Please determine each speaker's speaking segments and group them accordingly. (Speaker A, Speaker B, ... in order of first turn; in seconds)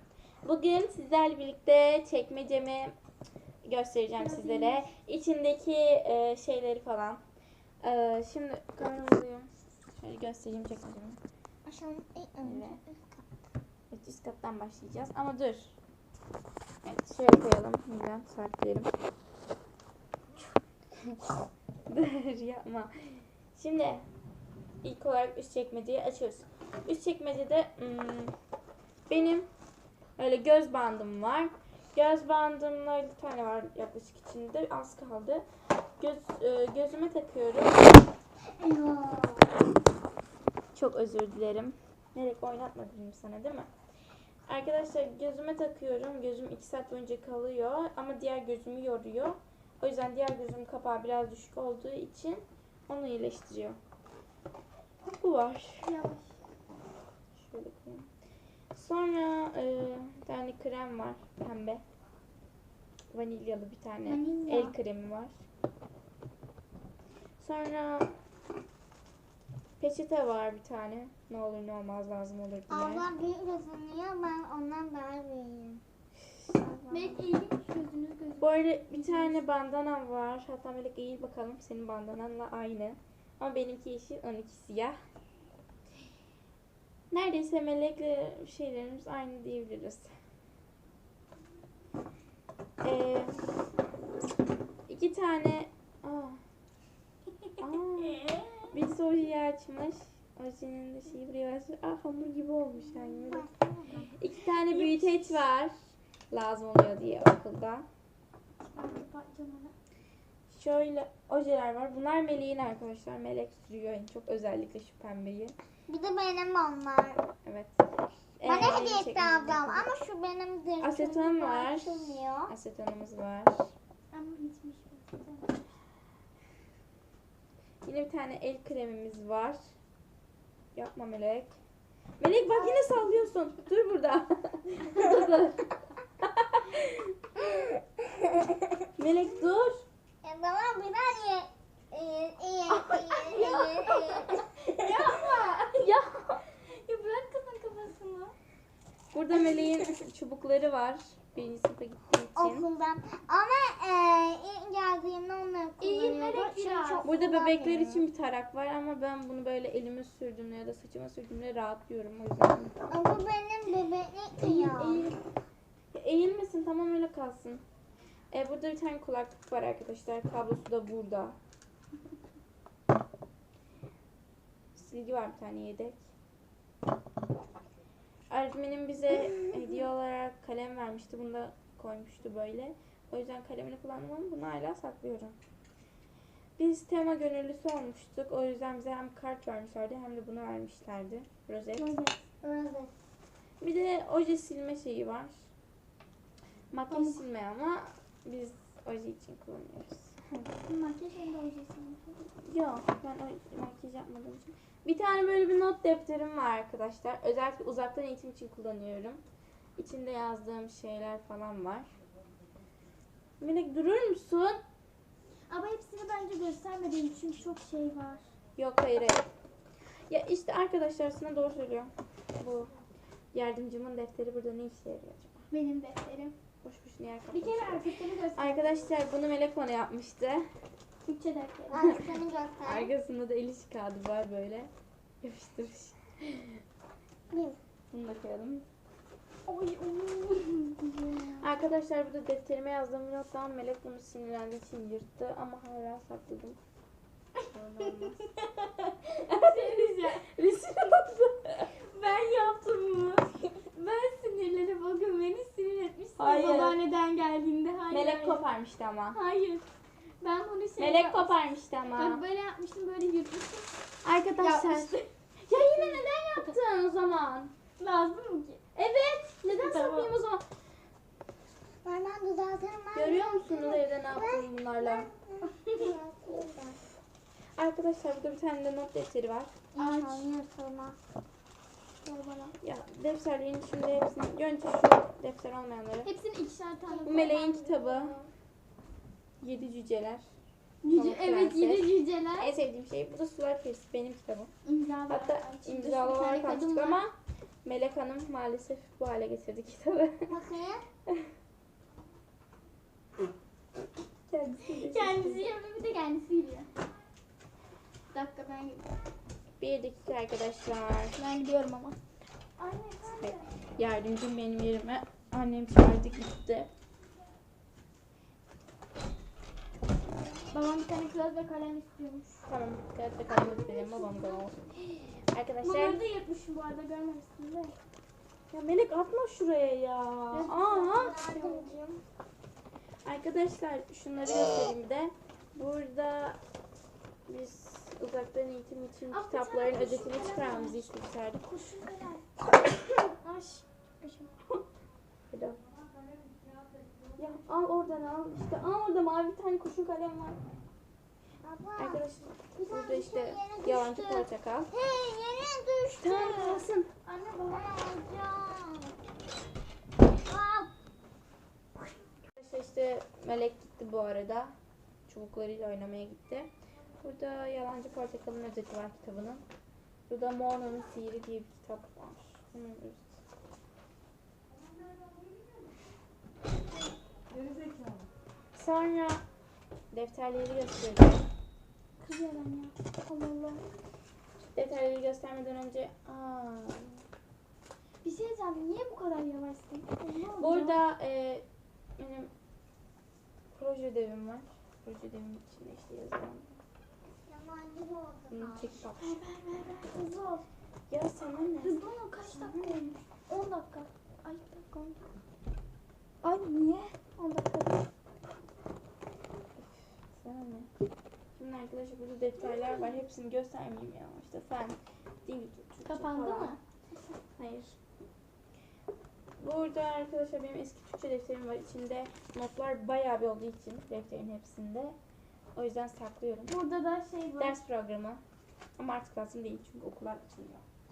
Speaker A: 0.4-2.9, 3.6-7.2, 7.8-11.2, 12.4-12.8, 13.9-15.8, 16.8-18.9, 21.9-24.0, 24.8-28.3, 29.1-29.5, 30.2-35.4, 36.0-38.0, 40.7-43.7, 44.5-53.8, 55.0-55.9, 57.4-58.1, 58.7-61.8, 63.1-65.4, 67.4-68.1, 69.8-73.1, 76.2-77.3, 78.4-85.0, 87.1-90.1, 92.8-93.4, 94.9-96.4, 97.6-103.5, 104.1-105.7, 106.3-107.8, 110.5-115.5, 117.4-119.9, 120.8-123.7, 127.8-129.6, 130.7-131.6, 132.2-137.4, 138.9-139.8, 145.7-146.4, 149.1-152.7, 157.0-162.7, 165.9-167.6, 168.3-171.4, 174.7-176.0, 178.3-185.3, 186.6-191.9, 193.6-195.4, 196.7-200.5, 202.4-209.2, 209.8-211.9, 213.4-214.6, 218.6-219.2, 220.1-222.7, 223.3-225.4, 226.6-230.5, 232.6-234.7, 235.2-236.6, 237.9-238.7, 241.4-246.6, 247.5-248.3, 249.2-251.7, 256.2-256.8, 257.9-259.2, 260.8-262.2, 264.0-267.5, 268.7-270.4, 272.9-275.1, 277.6-279.5, 282.6-286.1, 287.1-288.2, 289.4-290.2, 290.9-294.5, 295.1-297.1, 297.6-300.3, 304.3-305.5, 309.6-311.2, 313.1-316.7, 322.4-326.0, 328.5-331.2, 333.0-336.4, 337.3-341.4, 345.3-345.6, 347.2-350.4, 351.8-354.7, 356.0-356.9, 362.4-364.5, 365.1-366.5, 367.0-369.4, 370.1-373.1, 378.5-379.2, 379.9-381.2, 384.4-387.0, 390.4-391.4, 392.0-392.3, 393.5-396.6, 398.3-399.2, 400.9-402.9, 407.2-407.8, 409.6-410.7, 411.4-416.6, 417.4-417.8, 419.4-424.9, 425.5-426.6, 427.4-428.2, 428.8-430.6
Speaker B: 4.2-4.9, 55.8-56.3, 64.0-64.7, 76.9-79.4, 98.1-98.7, 104.6-105.4, 108.7-109.7, 124.1-125.6, 142.8-145.9, 146.5-148.3, 155.8-157.1, 164.4-165.2, 191.7-192.2, 196.9-197.2, 200.6-202.2, 215.5-218.3, 225.5-226.3, 227.3-228.9, 231.0-232.1, 239.5-241.4, 247.8-248.5, 249.1-250.2, 251.7-258.4, 259.1-259.6, 260.2-266.5, 267.8-268.6, 269.4-270.1, 275.6-275.9, 279.8-280.3, 282.0-282.6, 286.0-288.3, 290.8-292.5, 294.6-297.0, 304.6-306.7, 308.1-308.9, 311.1-312.0, 312.6-313.5, 320.5-322.4, 323.3-324.3, 325.6-327.8, 330.3-331.7, 339.1-344.3, 356.2-357.9, 382.0-383.6, 388.0-390.8, 399.0-400.4, 401.6-405.0, 406.2-407.0, 412.4-413.0, 415.9-417.0, 426.5-427.6
Speaker C: 11.7-13.2, 38.5-39.5, 72.7-75.8, 103.3-104.1, 115.9-117.3, 118.4-122.5, 132.6-133.1, 137.5-138.6, 140.2-144.5, 152.3-158.0, 162.9-165.1, 192.4-192.9, 231.7-232.9, 237.3-237.6, 271.8-276.7, 279.7-281.0, 300.3-300.8, 323.6-324.2, 330.8-332.0, 351.4-352.0, 352.5-356.5, 357.5-358.9, 360.2-360.7, 397.2-398.8